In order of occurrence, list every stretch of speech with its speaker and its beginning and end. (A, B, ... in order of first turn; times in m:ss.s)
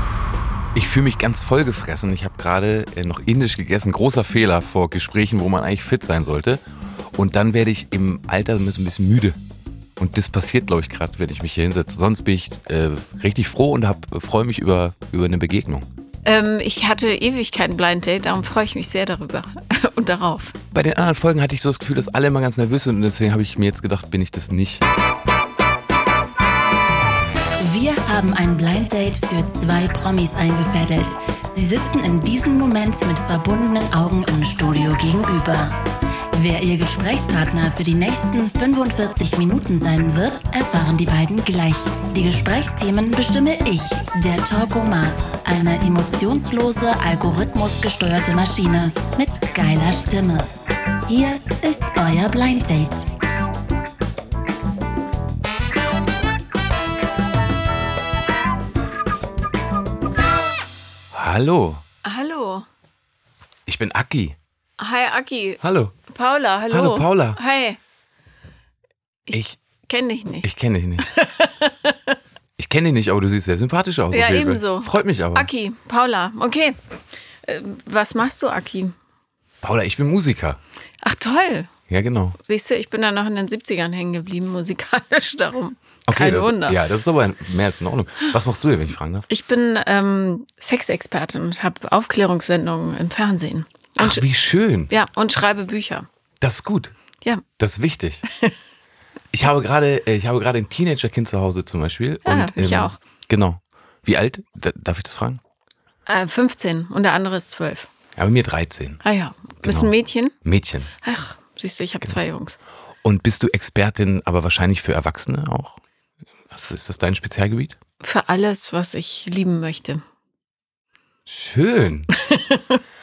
0:00.8-0:06.6 A
0:07.2-0:09.4 A
0:10.0-0:15.9 A
0:16.2-0:20.6 B
0:20.7-0:24.8 A
0:27.6-0:50.5 C
0:51.1-0:53.1 C
1:01.1-1:01.8 A
1:02.0-1:02.7 B
1:03.7-1:04.4 A
1:04.8-1:07.8 B
1:05.6-1:06.0 A
1:06.7-1:07.4 A
1:09.3-1:10.5 B
1:10.4-1:11.1 A
1:11.0-1:12.2 B
1:12.6-1:15.5 A
1:14.1-1:16.8 B
1:17.4-1:19.0 B
1:19.6-1:20.6 A
1:21.0-1:21.7 B
1:21.9-1:22.4 A
1:22.4-1:26.8 B
1:26.1-1:29.3 A
1:29.3-1:34.2 B
1:34.0-1:34.9 A
1:34.9-1:36.1 B
1:36.4-1:36.9 A
1:37.6-1:38.2 A
1:39.3-1:45.4 A
1:42.2-1:43.0 B
1:46.1-1:47.9 B
1:48.2-1:49.0 A
1:49.0-1:50.4 B
1:49.6-1:49.9 A
1:50.4-1:50.9 A
1:51.0-1:52.6 B
1:53.0-1:55.8 A
1:56.5-1:57.8 A
1:58.0-2:00.0 B
2:01.3-2:02.1 A
2:02.2-2:02.8 B